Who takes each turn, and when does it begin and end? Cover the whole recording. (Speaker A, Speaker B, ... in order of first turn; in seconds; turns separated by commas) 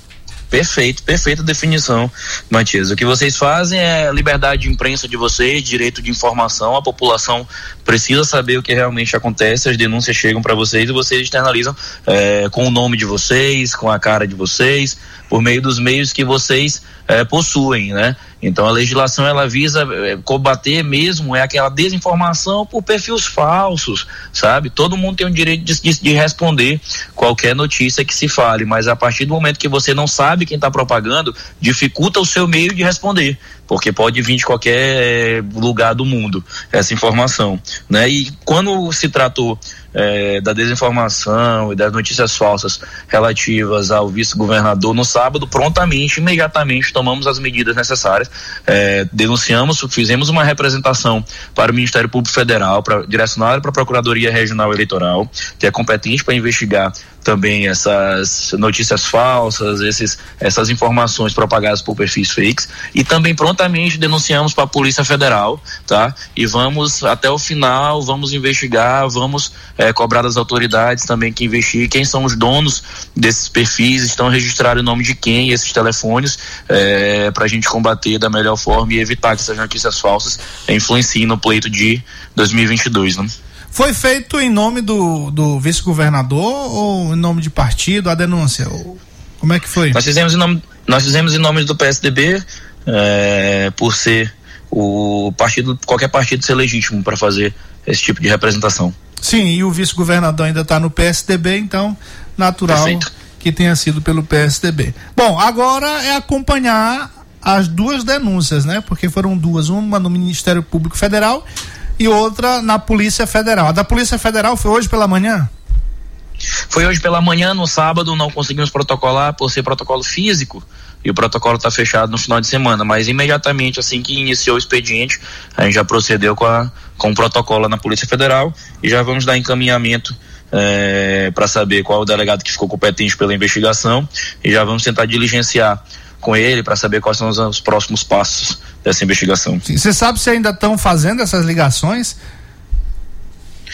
Speaker A: 0.5-83.3, Speaker B: 83.7-90.0, Speaker A: 89.9-98.9, Speaker B: 99.2-111.4, Speaker A: 102.7-103.0, Speaker B: 112.0-115.5, Speaker A: 116.7-139.6, Speaker B: 139.6-142.2